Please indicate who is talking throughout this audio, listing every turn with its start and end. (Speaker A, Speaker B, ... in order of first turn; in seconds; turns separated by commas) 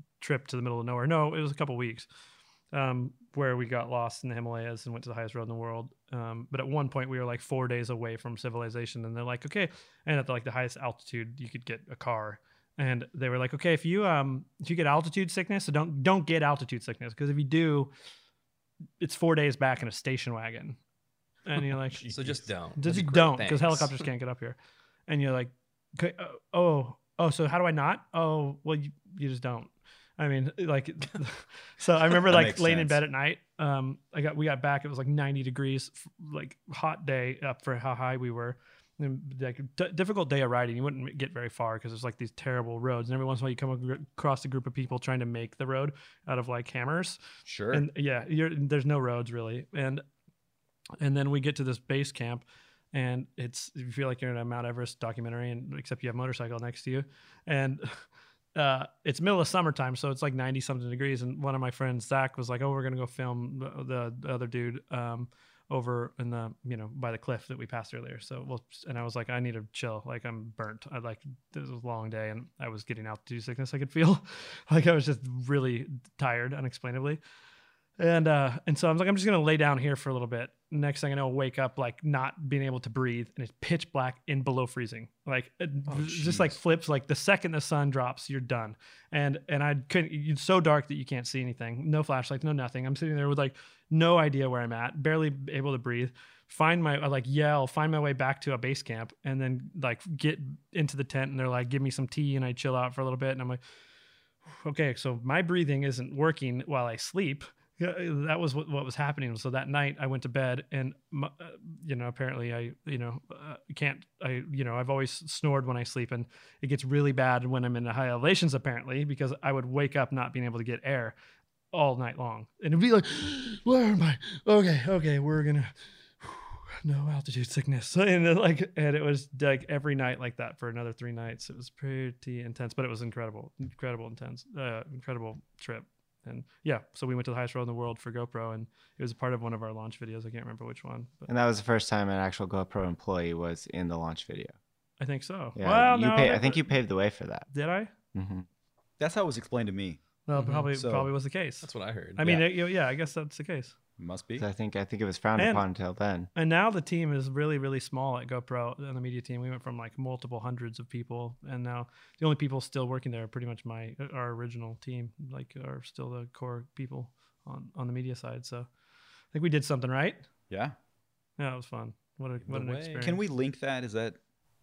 Speaker A: 0.2-2.1, Speaker A: 2.7-17.9, Speaker A: 19.0-20.8, Speaker A: 21.4-22.1, Speaker B: 22.0-23.9, Speaker A: 22.8-47.2, Speaker C: 32.2-33.0, Speaker C: 47.5-47.8, Speaker A: 47.7-50.0, Speaker A: 51.0-77.2, Speaker A: 78.0-103.6, Speaker C: 85.9-86.5, Speaker A: 104.5-121.2, Speaker A: 121.7-141.3, Speaker D: 141.3-144.5, Speaker A: 145.0-146.7, Speaker D: 145.6-147.5, Speaker A: 147.5-147.9, Speaker D: 148.1-148.4, Speaker C: 149.0-150.0, Speaker A: 150.2-153.7, Speaker B: 150.3-150.7, Speaker C: 150.7-151.1, Speaker B: 151.6-152.2, Speaker C: 154.0-154.4, Speaker D: 154.4-156.3, Speaker A: 155.4-155.6, Speaker A: 156.3-168.7, Speaker A: 169.3-170.3, Speaker C: 170.5-170.7, Speaker A: 171.4-173.2, Speaker B: 172.5-173.0, Speaker C: 173.0-174.2